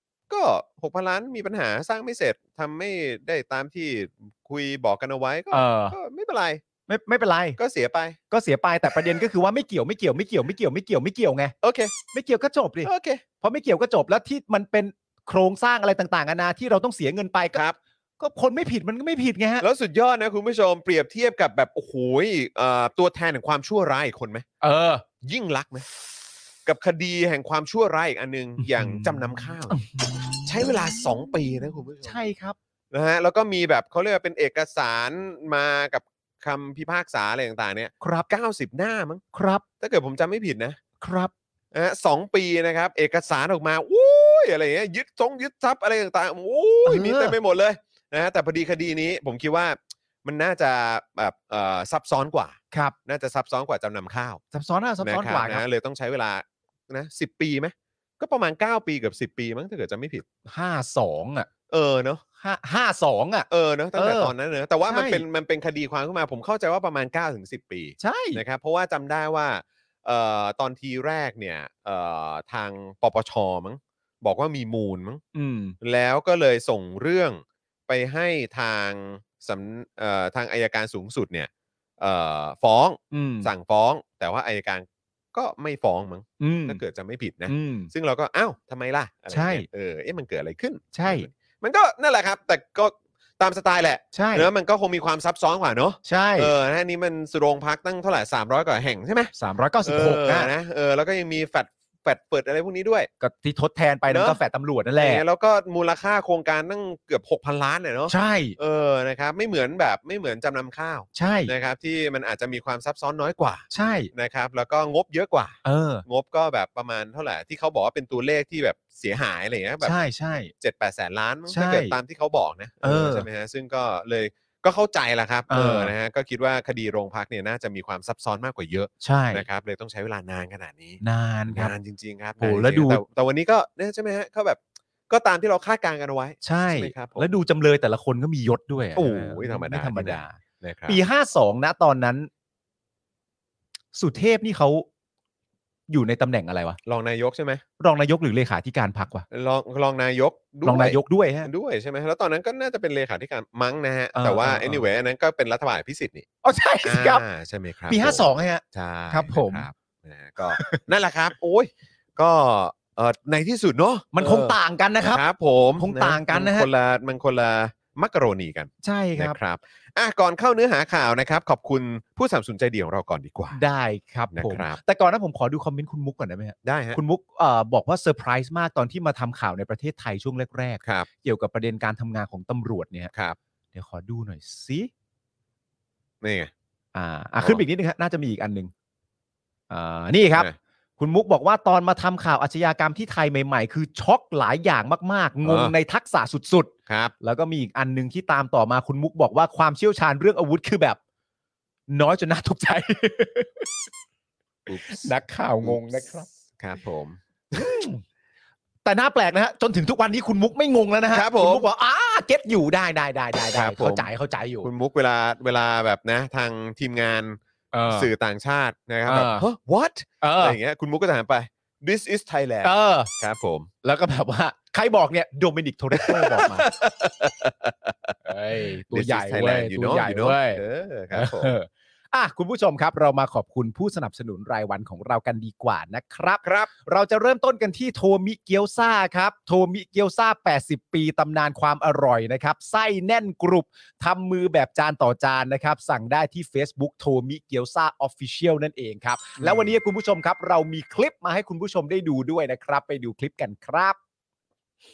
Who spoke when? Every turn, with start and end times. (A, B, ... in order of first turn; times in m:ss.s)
0:00.3-0:06.6 A
0:05.5-0:06.0 B
0:06.9-0:07.6 B
0:07.6-0:08.2 A
0:08.3-0:11.5 B
0:11.6-0:11.9 A
0:12.1-0:12.9 B
0:12.8-0:13.2 A
0:13.4-0:17.6 B
0:18.2-0:19.6 B
0:19.6-0:24.4 A
0:24.6-0:25.0 B
0:25.2-0:25.9 A
0:26.6-0:29.8 A
0:28.6-0:30.8 B
0:30.4-0:32.2 A
0:32.0-0:32.6 B
0:32.9-0:39.2 A
0:38.0-0:38.3 B
0:39.3-0:39.6 B
0:39.8-0:40.8 A
0:41.0-0:41.3 B
0:41.7-0:54.4 A
0:46.8-0:47.4 B
0:54.5-0:55.6 B
0:55.0-1:00.2 A
1:00.4-1:01.5 B
1:01.7-1:02.2 A
1:02.4-1:04.3 B
1:03.5-1:15.2 A
1:04.8-1:05.2 B
1:08.0-1:08.4 B
1:15.3-1:15.8 B
1:15.8-1:39.3 A
1:23.1-1:23.5 B
1:26.4-1:26.8 B
1:27.5-1:27.9 B
1:29.3-1:29.6 B
1:30.9-1:31.3 B
1:34.1-1:34.5 B
1:36.0-1:36.5 B
1:39.3-1:40.5 B
1:39.8-1:43.1 A
1:43.2-1:45.2 B
1:44.1-1:44.4 A
1:45.0-2:00.0 A
1:48.1-1:48.6 B
1:51.1-1:51.5 B
1:53.7-1:54.1 B
1:55.6-1:56.0 B
1:59.8-2:00.5 B
2:00.6-2:17.3 A
2:01.5-2:02.0 B
2:02.8-2:03.2 B
2:05.5-2:05.9 B
2:09.0-2:09.4 B
2:11.0-2:11.7 B
2:12.4-2:13.0 B
2:16.4-2:20.4 B
2:19.0-2:21.0 A
2:20.9-2:22.3 B
2:23.9-2:24.8 B
2:25.9-2:26.8 B
2:26.8-2:27.6 A
2:27.8-2:29.2 B
2:29.3-2:36.2 A
2:30.6-2:31.5 B
2:34.1-2:34.8 B
2:36.4-2:37.2 B
2:36.8-2:44.6 A
2:37.9-2:39.6 B
2:40.5-2:40.8 B
2:44.1-2:45.2 B
2:45.1-2:53.6 A
2:45.8-2:46.7 B
2:48.8-2:49.4 B
2:53.5-3:03.1 B
2:54.3-2:54.8 A
2:56.6-2:57.0 A
3:03.7-3:04.9 B
3:06.2-3:06.5 A
3:06.9-3:08.7 B
3:09.7-3:21.0 B
3:15.4-3:15.7 A
3:16.9-3:17.1 A
3:21.9-3:23.7 B
3:24.7-3:27.7 A
3:24.7-3:26.3 B
3:27.5-3:28.0 B
3:28.8-3:34.7 B
3:31.1-3:31.6 A
3:33.5-3:34.1 A
3:34.6-3:43.7 A
3:37.7-3:38.1 B
3:39.0-3:39.5 B
3:40.2-3:40.6 B
3:42.6-3:43.1 B
3:43.8-3:46.7 B
3:45.9-3:51.5 A
3:48.2-3:50.6 B
3:51.1-4:14.0 B
3:56.4-3:56.7 A
4:09.4-4:09.7 A